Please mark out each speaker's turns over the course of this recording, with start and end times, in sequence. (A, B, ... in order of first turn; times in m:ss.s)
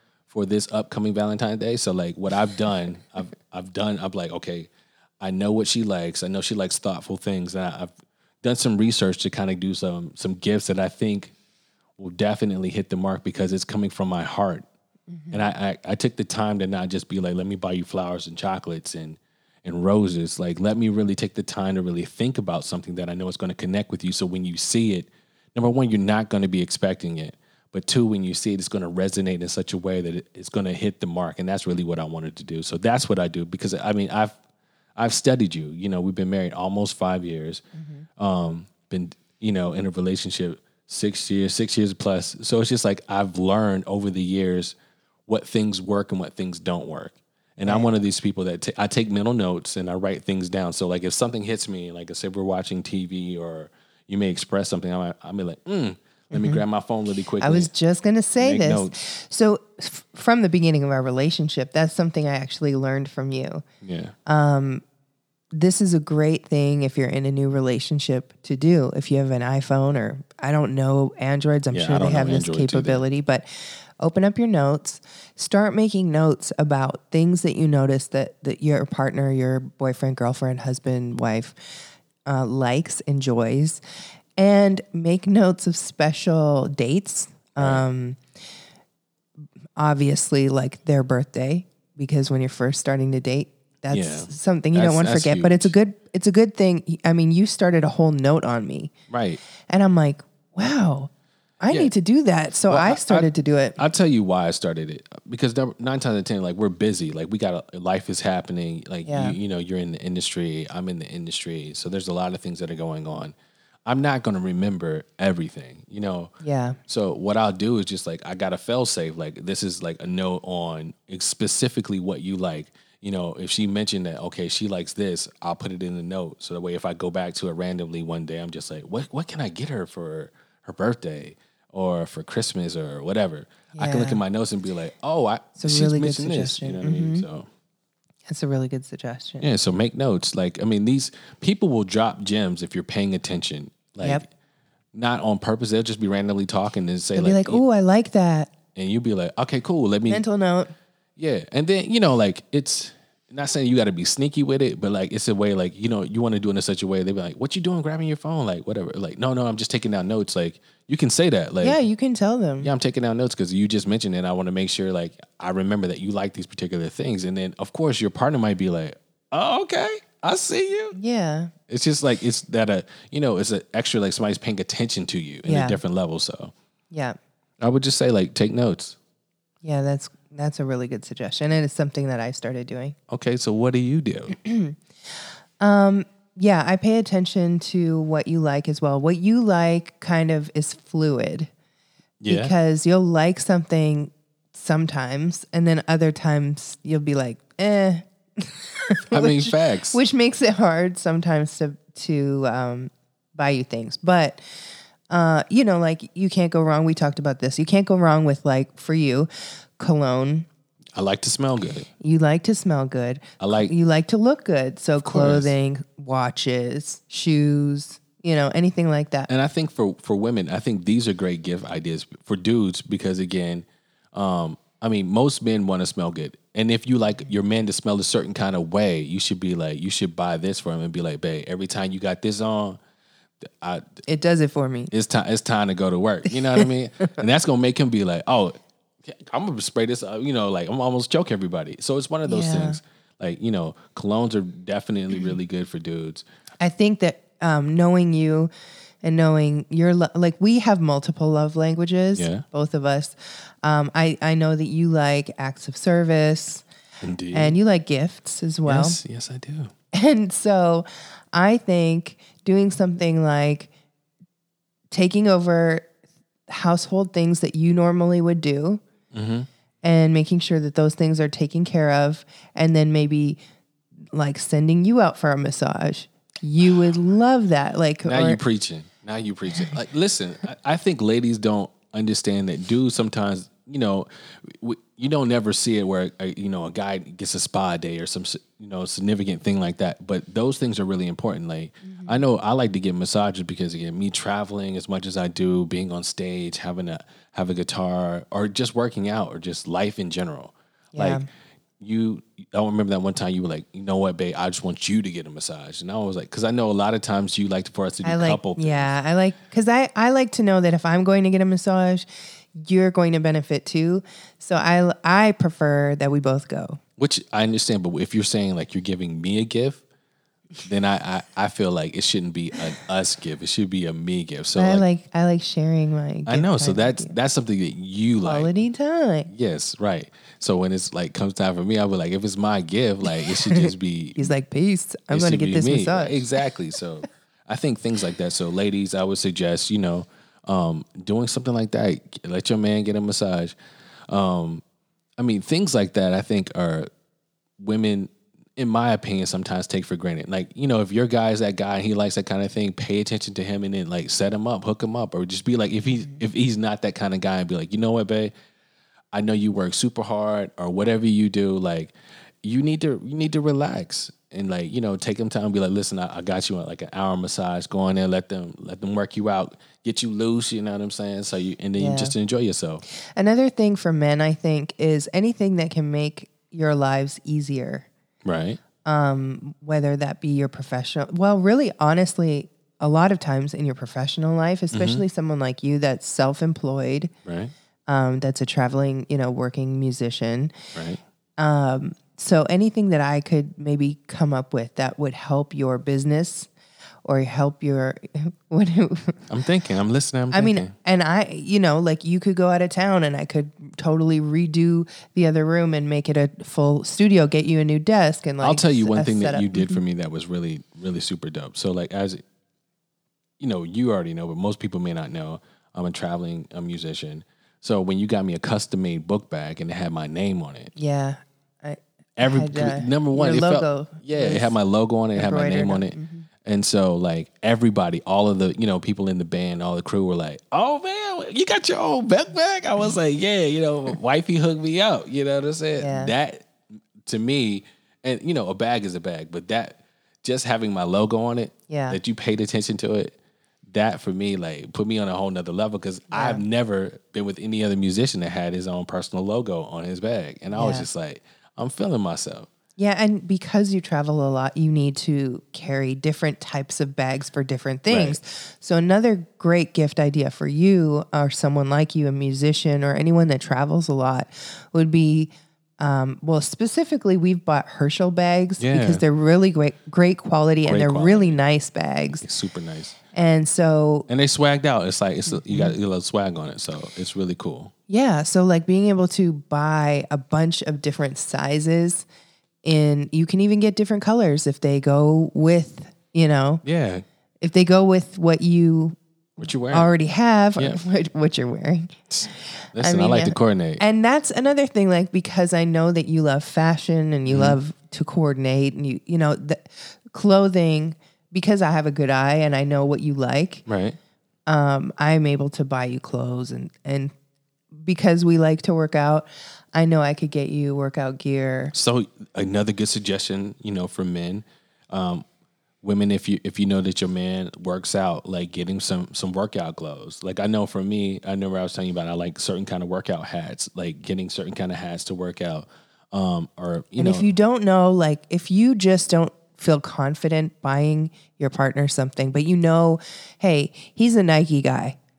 0:00.3-0:04.7 A
0:05.2-0:07.9 A
0:08.4-0:11.3 A
0:12.0-0:14.6 A
0:15.1-0:15.4 B
0:15.3-0:34.4 A
0:35.0-0:37.6 A
0:37.7-0:38.0 B
0:38.2-0:44.7 A
0:45.3-0:57.7 A
0:47.6-0:48.0 B
0:56.3-0:56.6 B
0:57.4-1:03.6 B
0:58.4-0:58.9 A
1:03.8-1:04.1 A
1:04.2-1:04.8 B
1:05.5-1:23.8 B
1:11.7-1:13.0 A
1:24.4-1:28.2 B
1:27.6-1:27.8 A
1:29.8-1:38.9 B
1:33.9-1:35.7 A
1:39.1-1:39.4 A
1:39.7-1:41.1 B
1:41.6-1:43.8 B
1:42.7-1:53.3 A
1:49.0-1:49.4 B
1:53.8-1:56.3 A
1:56.4-1:56.8 B
1:56.9-2:17.5 A
2:13.7-2:14.2 B
2:15.6-2:17.2 B
2:18.3-2:19.5 B
2:19.4-2:24.3 A
2:24.9-2:27.6 A
2:27.2-2:28.5 B
2:28.7-2:30.2 A
2:30.1-2:30.7 B
2:31.2-2:41.8 A
2:41.6-2:42.7 B
2:42.6-2:51.0 A
2:50.9-2:51.5 B
2:51.7-2:56.5 A
2:55.4-2:55.8 B
2:56.9-2:57.2 B
2:57.6-2:59.0 A
2:59.6-3:03.0 B
3:03.1-3:04.4 A
3:04.3-3:04.8 B
3:05.6-3:11.5 B
3:12.2-3:12.5 A
3:12.3-3:24.4 B
3:19.1-3:20.0 A
3:25.1-3:30.5 B
3:30.9-3:31.9 A
3:32.0-3:39.3 B
3:33.4-3:33.7 A
3:35.0-3:35.5 A
3:39.3-3:52.8 A
3:53.4-3:54.0 A
3:54.1-3:54.9 B
3:54.9-4:06.2 A
3:56.6-3:57.1 B
4:02.2-4:02.8 B
4:06.6-4:08.5 B
4:09.0-4:16.6 B
4:12.2-4:12.4 A
4:17.0-4:17.6 A
4:17.3-4:19.0 B
4:18.6-4:19.7 A
4:19.9-4:23.7 B
4:24.9-4:25.9 B
4:26.5-4:28.8 B
4:29.1-4:29.5 A
4:29.8-4:33.4 B
4:34.1-4:38.4 B
4:38.0-5:01.2 A
4:51.8-4:52.2 B
5:00.9-5:01.2 B
5:01.8-5:08.9 A
5:08.0-5:16.8 B
5:17.0-5:19.8 A
5:20.6-5:24.8 A
5:24.5-5:27.1 B
5:26.2-5:28.5 A
5:28.2-5:29.3 B
5:29.3-5:34.3 A
5:33.2-5:36.3 B
5:35.1-5:43.5 A
5:44.1-5:44.6 A
5:45.2-5:46.9 A
5:47.6-5:58.3 A
5:59.1-6:12.8 A
6:11.7-6:12.1 B
6:12.9-6:17.9 B
6:18.2-6:18.6 A
6:18.8-6:27.1 B
6:24.7-6:25.0 A
6:27.2-6:27.5 A
6:27.9-6:30.6 B
6:30.7-6:31.0 A
6:31.4-6:36.5 B
6:37.0-6:39.3 B
6:39.3-6:40.7 A
6:40.3-6:49.8 B
6:48.4-6:52.2 A
6:53.4-7:00.7 A
7:00.8-7:04.6 B
7:02.2-7:16.5 A
7:05.2-7:06.3 B
7:15.8-7:16.1 B
7:17.0-7:23.2 A
7:21.7-7:22.0 B
7:23.7-7:32.5 A
7:26.1-7:26.4 B
7:30.5-7:30.8 B
7:32.8-7:52.2 B
7:37.9-7:38.2 A
7:48.6-7:49.0 A
7:50.6-7:51.4 A
7:52.2-7:53.0 A
7:53.1-7:54.0 B
7:54.1-7:57.7 A
7:55.3-7:55.7 B
7:57.9-8:02.0 B
8:02.6-8:06.6 B
8:06.6-8:07.0 A
8:07.4-8:23.6 B
8:09.4-8:09.9 A
8:12.1-8:13.8 A
8:17.3-8:17.6 A
8:23.7-8:24.0 A
8:24.5-8:27.1 B
8:27.7-8:31.7 B
8:31.7-8:35.2 A
8:35.8-8:47.3 A
8:47.0-8:55.0 B